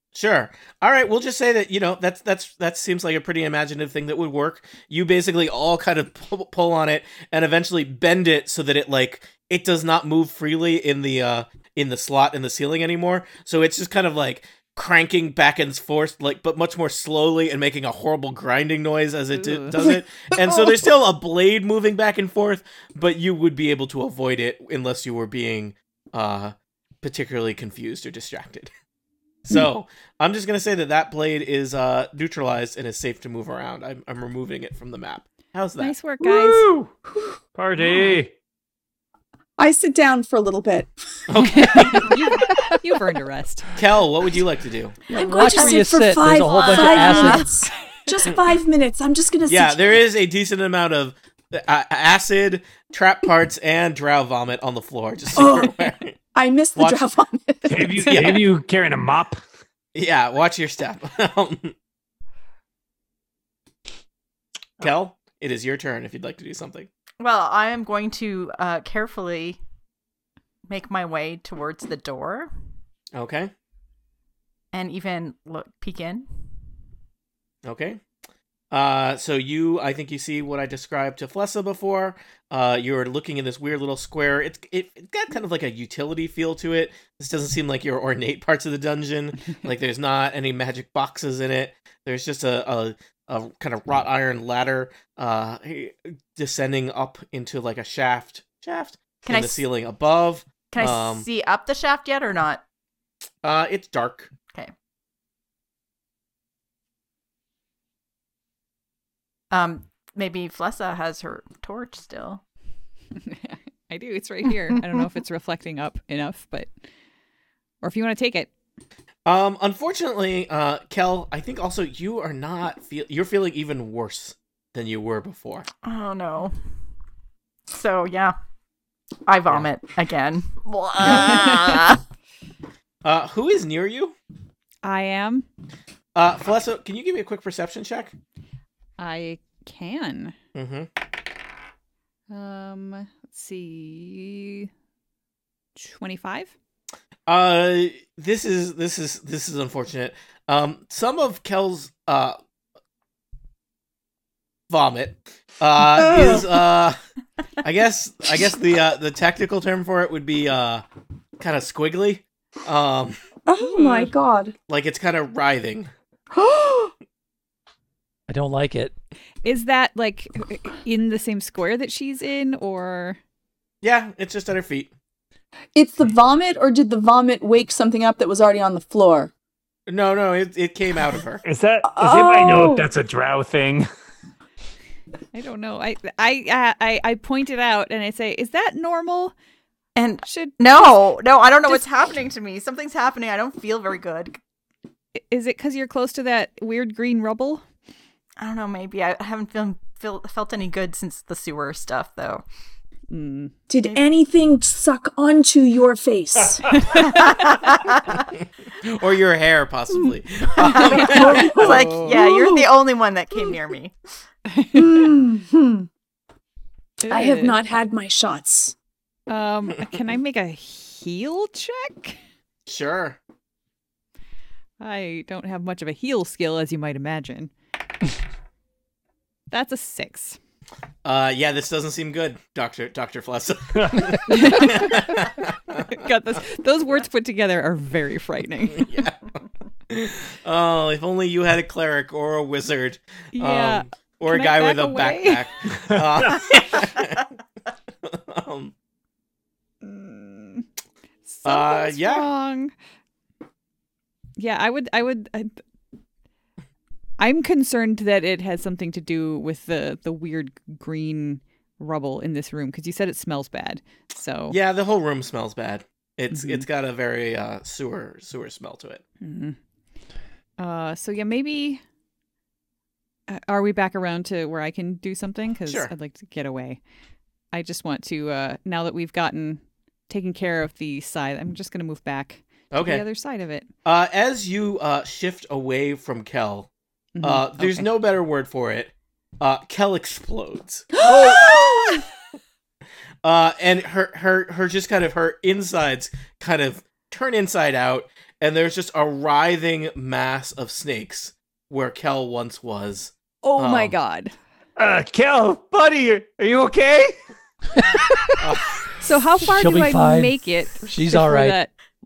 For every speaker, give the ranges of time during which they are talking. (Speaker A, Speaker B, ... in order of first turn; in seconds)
Speaker A: 0.1-28.7, 29.4-35.9, 41.3-42.2, 43.8-45.0, 49.5-56.1, 56.8-57.0, 58.1-58.4, 59.9-61.7, 64.8-66.9, 73.1-73.5, 77.6-78.0, 78.7-101.3, 103.4-104.3, 119.2-125.7, 133.0-134.2, 136.1-138.1, 140.5-140.9, 147.3-152.4, 154.7-157.0, 157.6-160.8, 161.4-163.2, 164.7-165.9, 173.8-174.9, 179.9-181.4, 208.8-211.8, 222.7-223.2, 231.0-235.9, 238.8-239.2, 239.9-247.3, 248.1-248.7, 251.4-252.3, 264.5-269.0, 275.7-275.9, 282.7-283.0, 283.8-286.7, 287.2-291.5, 293.2-303.9, 308.4-308.8
Speaker B: 19.3-19.8, 35.8-36.7, 41.4-43.7, 113.2-116.7, 117.8-118.5, 131.1-131.6, 134.8-135.5, 139.0-140.3, 142.3-144.7, 145.8-146.5, 163.6-164.1, 169.4-173.2, 185.3-189.3, 190.2-191.0, 195.2-197.6, 203.1-203.5, 211.6-212.1, 214.5-215.1, 217.0-217.6, 219.3-222.2, 224.8-227.5, 229.5-230.4, 234.3-239.0, 243.3-245.5, 249.8-250.7, 251.3-252.7, 254.4-255.6, 257.2-264.6, 266.3-266.6, 269.2-269.6, 270.6-271.8, 273.3-276.8, 277.5-283.7, 287.1-287.9, 303.4-304.3, 309.0-311.7
Speaker C: 19.8-20.7, 37.1-37.4, 39.6-41.2, 41.7-42.7, 45.1-50.0, 55.3-58.4, 155.9-156.5, 163.5-164.5, 166.3-166.9, 175.7-179.3, 181.9-182.9, 203.7-206.7, 210.9-212.7, 214.7-215.9, 217.1-218.7, 290.9-292.0
Speaker D: 36.4-36.9, 37.5-38.3, 57.7-59.4, 181.4-183.9, 206.6-207.0, 233.7-234.1, 245.7-246.4, 304.8-307.2
Speaker E: 45.1-47.5, 168.3-168.9, 309.4-311.6
Speaker F: 46.6-47.4, 67.2-69.6, 70.7-72.5, 74.7-76.3, 99.2-99.6, 100.7-102.6, 109.5-112.4, 125.8-126.5, 127.7-128.3, 129.3-132.0, 189.9-194.4, 198.4-202.4, 207.0-208.2, 210.6-213.9